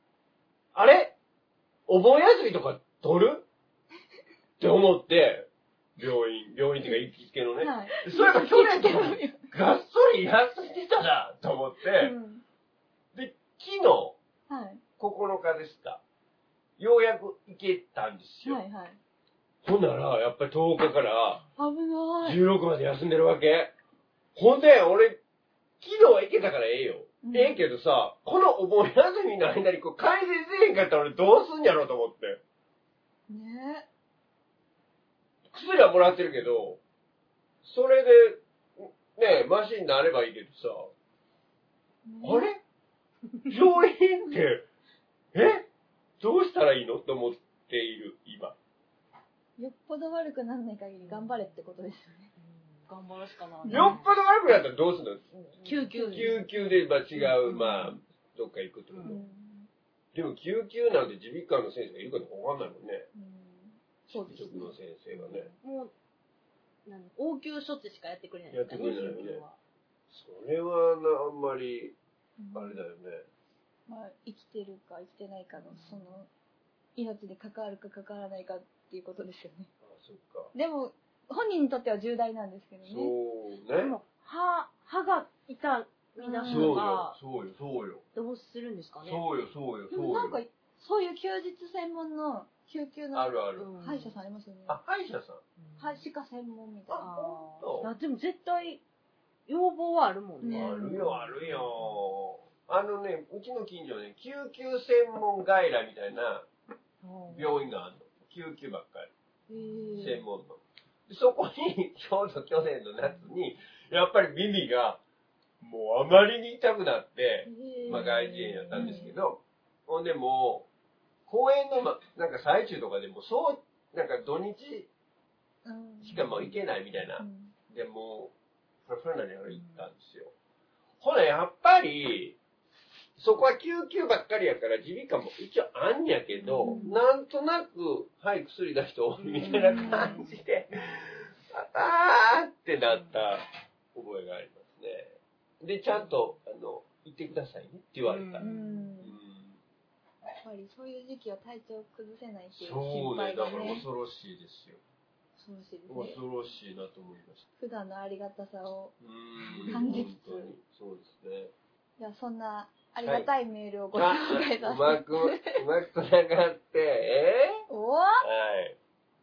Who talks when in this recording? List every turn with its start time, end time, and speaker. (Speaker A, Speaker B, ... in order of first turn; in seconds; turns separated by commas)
Speaker A: 0.7-1.1, Speaker A: 1.9-3.5, Speaker A: 4.6-12.1, Speaker B: 7.6-9.5, Speaker B: 12.0-12.4, Speaker A: 13.1-14.2, Speaker B: 14.5-14.8, Speaker A: 15.0-16.0, Speaker A: 16.8-18.6, Speaker B: 18.4-19.0, Speaker A: 19.6-21.4, Speaker B: 21.6-22.4, Speaker A: 22.2-23.7, Speaker A: 24.3-25.2, Speaker A: 25.8-32.4, Speaker B: 27.2-27.6, Speaker B: 33.3-33.9, Speaker A: 35.5-36.8, Speaker A: 37.6-40.9, Speaker B: 42.0-42.5, Speaker A: 42.2-42.6, Speaker A: 43.5-44.6, Speaker A: 45.3-45.7, Speaker A: 46.2-48.5, Speaker B: 49.6-52.3, Speaker C: 51.0-51.5, Speaker C: 52.4-54.1, Speaker B: 53.6-54.0, Speaker A: 53.7-55.3, Speaker C: 55.5-56.6, Speaker A: 55.9-59.2, Speaker B: 55.9-56.3, Speaker C: 57.1-57.7, Speaker B: 57.5-57.8, Speaker C: 58.9-59.2, Speaker B: 59.0-59.7, Speaker A: 60.1-63.1, Speaker B: 63.1-64.7, Speaker A: 64.1-65.5, Speaker C: 65.2-65.9, Speaker C: 66.8-69.6, Speaker A: 68.5-69.4, Speaker B: 68.8-69.2, Speaker A: 70.1-72.0, Speaker B: 72.4-72.8, Speaker A: 72.5-73.2, Speaker B: 73.9-76.3, Speaker C: 75.6-76.1, Speaker B: 77.0-79.7, Speaker A: 79.8-80.5, Speaker B: 80.5-83.1, Speaker A: 82.8-84.0, Speaker C: 83.8-87.2, Speaker B: 86.2-86.8, Speaker A: 86.5-88.0, Speaker C: 88.1-89.2, Speaker A: 89.0-90.4, Speaker B: 89.9-94.8, Speaker A: 93.1-93.7, Speaker C: 93.6-94.2, Speaker A: 94.7-95.4, Speaker C: 95.6-96.0, Speaker B: 95.8-97.2, Speaker A: 96.9-97.9, Speaker C: 97.0-98.8, Speaker C: 99.5-102.0, Speaker B: 100.4-101.1, Speaker A: 100.5-106.5, Speaker C: 107.0-107.6, Speaker A: 107.3-109.1, Speaker B: 109.5-110.2, Speaker C: 109.5-110.2, Speaker A: 110.0-115.0, Speaker A: 115.6-120.7, Speaker B: 117.5-119.1, Speaker C: 117.8-119.1, Speaker A: 121.3-124.9, Speaker B: 125.6-126.2, Speaker A: 126.0-128.3, Speaker B: 127.2-127.5, Speaker A: 128.8-130.3, Speaker C: 129.5-129.8, Speaker A: 131.0-132.4, Speaker A: 133.2-143.4, Speaker C: 136.4-136.9, Speaker B: 136.6-137.0, Speaker C: 139.2-140.4, Speaker B: 139.4-140.2, Speaker A: 143.9-148.5, Speaker C: 148.0-148.9, Speaker B: 148.4-149.2, Speaker A: 149.0-149.6, Speaker B: 150.4-153.8, Speaker A: 152.6-154.8, Speaker B: 155.4-156.2, Speaker A: 155.9-157.4, Speaker B: 157.6-158.9, Speaker A: 159.0-161.5, Speaker C: 159.5-159.8, Speaker B: 159.7-160.5, Speaker B: 162.0-165.6, Speaker A: 163.0-163.3, Speaker A: 163.9-167.6, Speaker B: 167.7-168.2, Speaker A: 168.2-168.8